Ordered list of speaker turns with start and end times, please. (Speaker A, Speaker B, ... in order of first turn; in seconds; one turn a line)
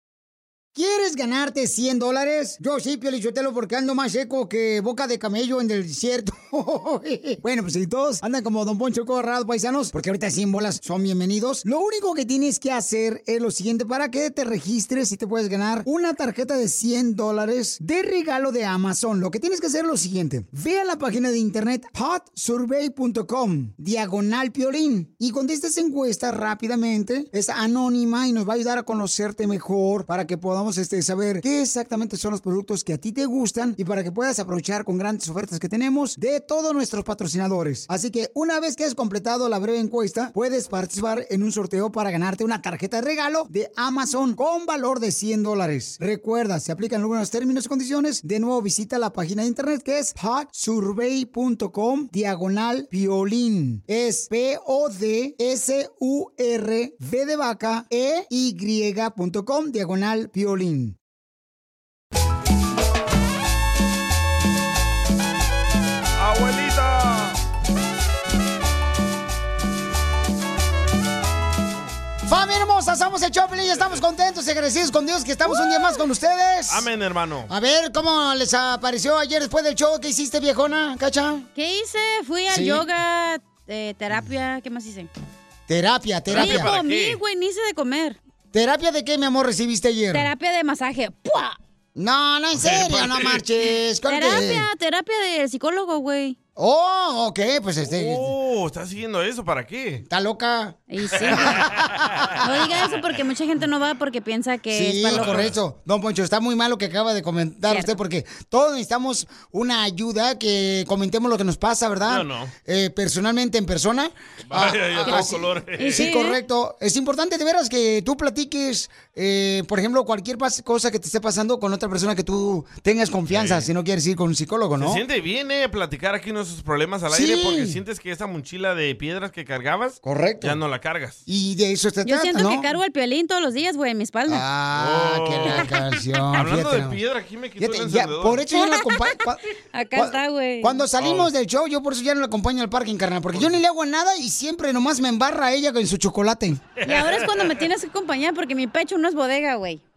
Speaker A: 0.7-61.0
Speaker B: 66.2-67.4
Speaker A: 72.2-76.9
Speaker B: 73.7-74.0
Speaker B: 76.7-77.5
Speaker A: 77.5-81.5
Speaker C: 81.6-85.1
Speaker A: 82.5-82.8
Speaker A: 85.7-86.7
Speaker B: 86.3-87.2
Speaker C: 86.3-88.2
Speaker A: 88.5-90.3
Speaker C: 90.1-91.6
Speaker A: 92.0-94.7
Speaker B: 92.6-93.4
Speaker C: 94.1-96.4
Speaker A: 96.6-98.3
Speaker B: 97.8-100.0
Speaker A: 100.0-102.3
Speaker C: 100.9-101.5
Speaker B: 101.4-102.4
Speaker C: 102.4-105.5
Speaker A: 104.7-125.0
Speaker B: 105.1-105.6
Speaker B: 112.1-112.5
Speaker B: 114.5-116.1
Speaker C: 115.8-116.4
Speaker B: 123.3-123.7
Speaker B: 124.8-131.2
Speaker A: 127.1-127.8
Speaker A: 130.0-130.6
Speaker A: 131.3-132.7
Speaker C: 132.1-134.4
Speaker A: 134.3-137.0
Speaker B: 134.8-135.7
Speaker B: 136.3-138.4
Speaker A: 137.6-139.4
Speaker C: 138.6-139.2
Speaker C: 139.7-140.8
Speaker A: 139.9-146.6
Speaker B: 141.0-141.3
Speaker B: 146.8-147.6
Speaker C: 146.8-149.8